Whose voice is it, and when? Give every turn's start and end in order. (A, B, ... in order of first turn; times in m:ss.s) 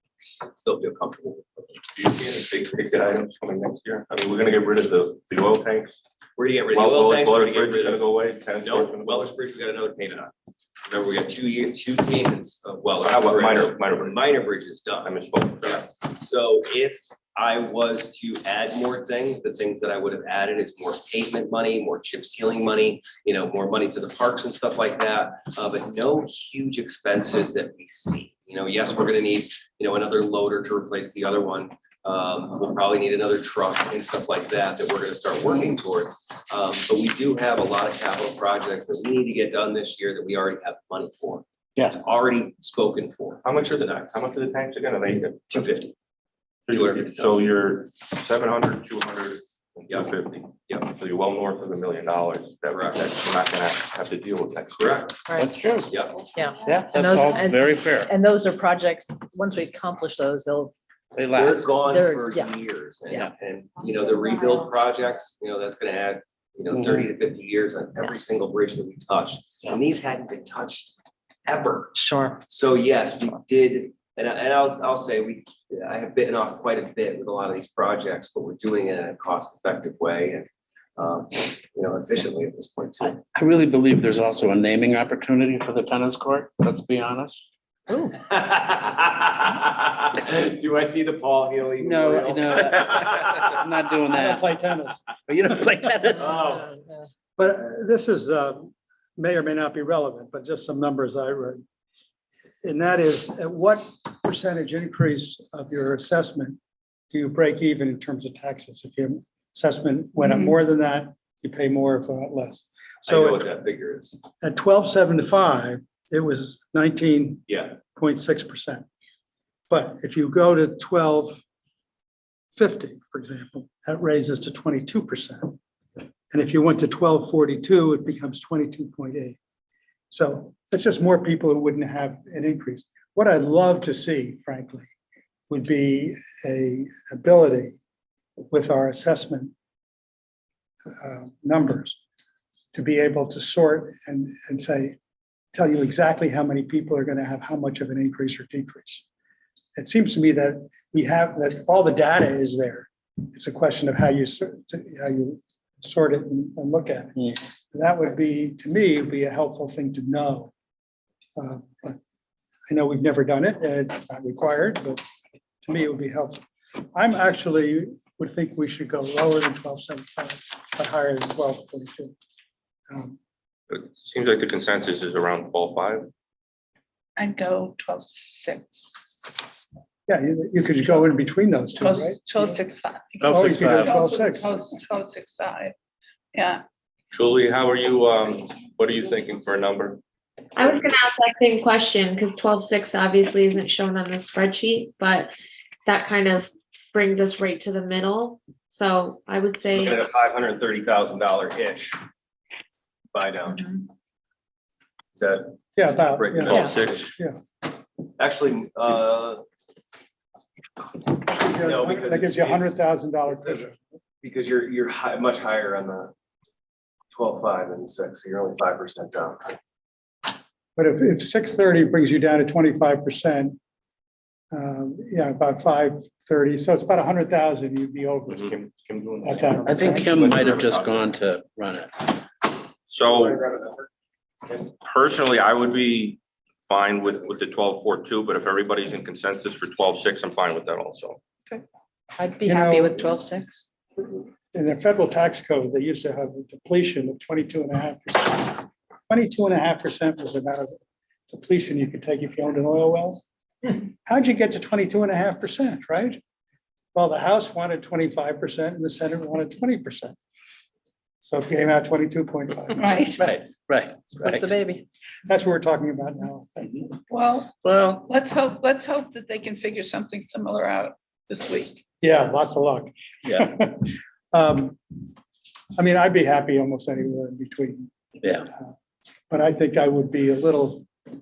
0:00.5-0:01.8 A
0:01.9-0:06.0 B
0:06.4-0:08.1 A
0:06.7-0:09.3 B
0:08.6-0:10.3 A
0:10.8-0:44.2 A
0:13.0-0:14.2 B
0:15.0-0:15.8 B
0:43.4-0:45.6 B
0:45.5-0:45.9 A
0:46.7-0:55.0 B
0:46.7-0:47.4 A
0:50.6-0:50.9 A
0:54.8-0:55.2 A
0:55.3-0:55.5 C
0:55.3-0:56.0 D
0:55.9-0:56.2 A
0:56.3-1:00.7 C
0:56.6-0:57.5 E
0:56.6-0:58.1 D
1:01.2-1:01.9 D
1:01.3-1:10.9 A
1:01.9-1:02.5 C
1:06.7-1:07.1 D
1:11.4-1:12.0 A
1:11.9-1:12.4 C
1:12.5-1:23.2 A
1:23.3-1:27.4 D
1:28.0-1:33.6 A
1:31.8-1:34.5 D
1:34.1-1:36.3 F
1:35.3-1:36.4 D
1:36.2-1:36.7 A
1:36.4-1:37.0 C
1:37.4-1:41.6 F
1:42.6-1:46.6 F
1:47.1-1:53.4 F
1:50.2-1:50.5 E
1:53.0-1:54.2 A
1:54.4-1:58.8 F
1:57.5-1:57.8 A
1:59.7-2:01.4 F
2:02.6-2:05.6 F
2:06.3-2:09.4 F
2:10.1-2:14.9 F
2:15.5-2:17.8 F
2:18.5-2:19.5 F
2:21.0-2:22.0 F
2:22.7-2:25.0 F
2:25.5-2:29.0 F
2:29.8-2:40.5 F
2:41.4-2:42.0 F
2:42.7-2:45.0 F
2:45.6-2:46.4 F
2:46.9-2:52.1 F
2:52.9-2:53.2 F
2:53.7-2:56.1 B
2:57.2-2:59.5 E
3:00.1-3:02.6 F
3:01.8-3:05.7 E
3:03.2-3:04.5 F
3:03.2-3:03.9 D
3:06.3-3:06.6 E
3:07.1-3:10.0 B
3:10.6-3:15.3 G
3:15.8-3:20.0 G
3:19.7-3:22.0 A
3:23.1-3:23.8 A
3:25.1-3:27.1 A
3:25.8-3:26.6 F
3:26.4-3:27.2 B
3:28.2-3:29.4 A
3:31.4-3:33.6 A
3:31.4-3:33.8 F
3:34.2-3:36.1 A
3:37.1-3:39.6 A
3:40.8-3:43.6 F
3:44.5-3:48.5 F
3:48.3-3:51.1 B
3:49.2-3:50.2 F
3:49.6-3:52.2 D
3:52.9-3:53.6 B
3:54.5-4:01.2 B
4:02.2-4:03.6 C
4:02.4-4:03.1 F
4:04.0-4:10.8 F
4:11.3-4:16.2 F
4:16.9-4:20.2 F
4:21.2-4:22.9 F
4:22.7-4:23.3 E
4:23.2-4:24.4 D
4:24.0-4:24.8 C
4:25.2-4:26.9 F
4:27.1-4:31.8 E
4:27.6-4:28.0 D
4:32.0-4:34.8 F
4:33.2-4:33.6 D
4:35.8-4:37.9 F
4:38.2-4:38.5 D
4:39.3-4:40.9 F